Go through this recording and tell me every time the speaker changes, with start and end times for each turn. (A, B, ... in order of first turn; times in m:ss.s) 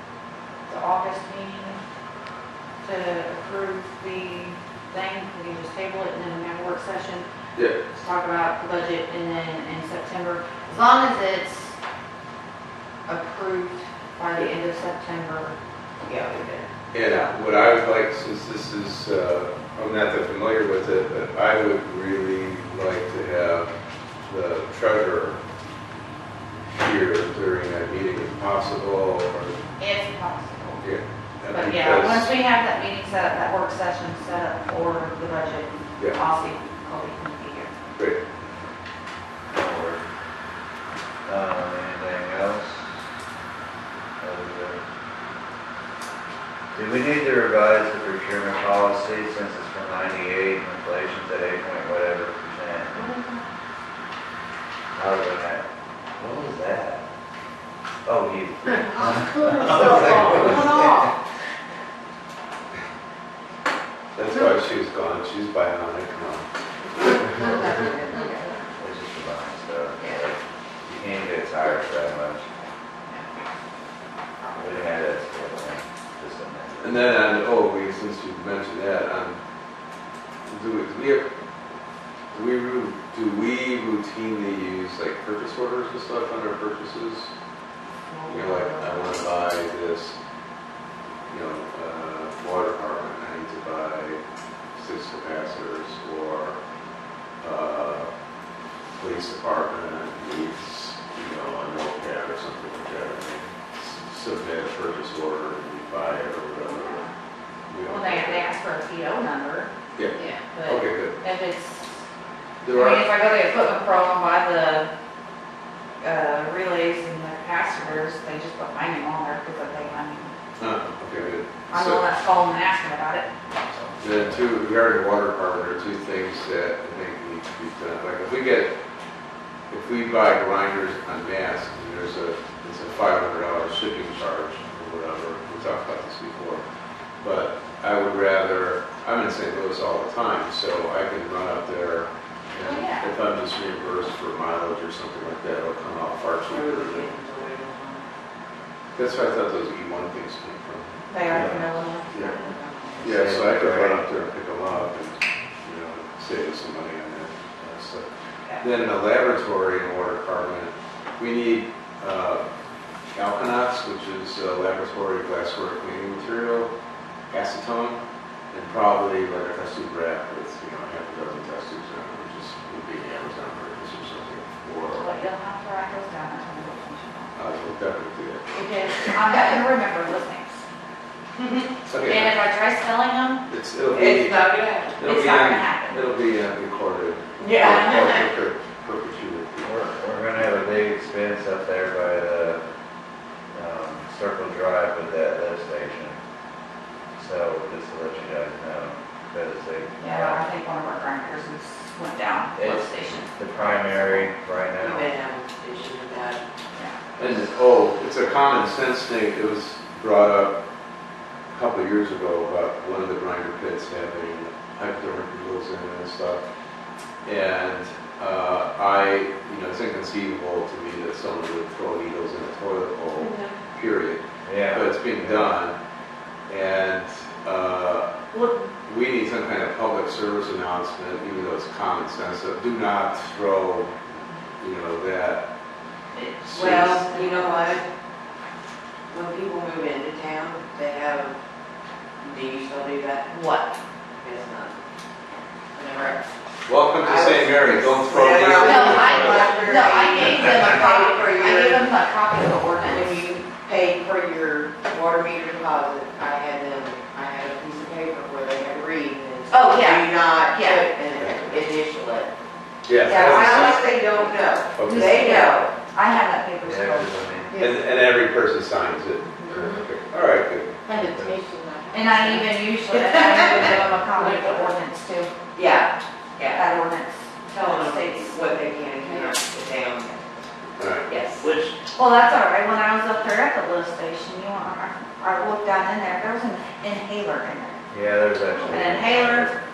0:00.7-0:01.8 A
0:02.8-0:07.2 A
0:07.9-0:11.7 A
0:13.1-0:15.5 A
0:16.0-0:16.7 B
0:16.9-0:23.7 C
0:24.3-0:25.4 C
0:26.8-0:29.6 C
0:29.8-0:30.8 A
0:30.8-0:32.3 C
0:31.5-0:37.8 A
0:38.0-0:38.2 C
0:39.5-0:40.0 D
0:41.3-0:43.0 D
0:44.2-0:44.8 D
0:46.7-0:53.1 D
0:53.0-0:53.4 A
0:55.0-0:57.1 D
0:58.0-1:00.9 D
0:59.4-1:01.1 A
1:04.2-1:06.5 C
1:08.8-1:12.5 D
1:14.5-1:17.2 D
1:16.8-1:19.4 C
1:20.5-1:21.3 C
1:22.3-1:27.3 C
1:28.1-1:29.1 A
1:28.3-1:30.2 C
1:31.3-1:34.2 C
1:34.8-1:36.6 C
1:37.4-1:38.1 C
1:39.0-1:47.0 C
1:46.6-1:47.1 A
1:47.7-1:48.5 C
1:47.8-1:49.7 A
1:50.0-1:51.2 C
1:50.5-1:52.0 A
1:52.6-1:53.1 C
1:52.7-1:54.9 A
1:56.0-2:00.3 A
2:00.6-2:02.1 C
2:01.7-2:03.3 A
2:03.7-2:04.5 D
2:04.0-2:08.7 C
2:09.7-2:16.6 C
2:17.2-2:27.1 C
2:22.6-2:23.1 A
2:26.5-2:28.1 B
2:29.0-2:31.5 C
2:31.1-2:32.8 A
2:31.3-2:31.7 D
2:32.5-2:33.0 B
2:33.0-2:38.1 C
2:33.0-2:34.1 D
2:38.6-2:42.4 C
2:43.1-2:46.7 C
2:47.3-2:55.1 C
2:55.0-2:57.4 A
2:57.4-2:58.5 C
2:58.5-3:00.6 A
3:01.4-3:01.6 B
3:01.8-3:02.4 C
3:02.1-3:03.4 A
3:03.5-3:09.9 C
3:03.9-3:05.0 B
3:05.0-3:06.0 A
3:07.4-3:08.2 B
3:07.7-3:08.1 A
3:09.6-3:12.6 D
3:13.5-3:16.2 D
3:17.2-3:20.5 D
3:20.0-3:24.3 A
3:22.6-3:25.1 D
3:24.8-3:26.4 B
3:27.2-3:30.6 C
3:31.5-3:36.4 C
3:37.2-3:45.8 C
3:43.2-3:43.6 B
3:44.4-3:45.5 D
3:46.5-3:48.1 C
3:48.3-3:48.7 A
3:48.8-3:54.0 C
3:54.6-3:55.4 C
3:56.1-3:57.8 A
3:56.5-3:57.0 C
3:56.6-3:57.9 B
3:59.1-4:01.4 B
4:02.2-4:03.4 B
4:03.3-4:03.7 A
4:04.2-4:04.8 B
4:05.8-4:06.3 B
4:06.7-4:09.7 C
4:07.0-4:11.9 B
4:08.5-4:13.3 A
4:12.8-4:22.3 B
4:19.5-4:20.9 A
4:21.2-4:21.5 C
4:22.9-4:23.8 C
4:23.0-4:25.7 B
4:23.0-4:27.4 A
4:24.8-4:25.3 C
4:26.6-4:27.6 D
4:27.5-4:27.8 B
4:27.6-4:30.8 C
4:29.5-4:29.8 B
4:30.9-4:34.7 B
4:31.0-4:31.4 D
4:31.9-4:35.4 A
4:35.6-4:36.6 B
4:36.5-4:39.3 A
4:37.5-4:40.3 B
4:40.8-4:41.1 C
4:41.1-4:41.5 B
4:42.0-4:47.8 A
4:47.9-4:49.6 D
4:48.7-4:49.6 A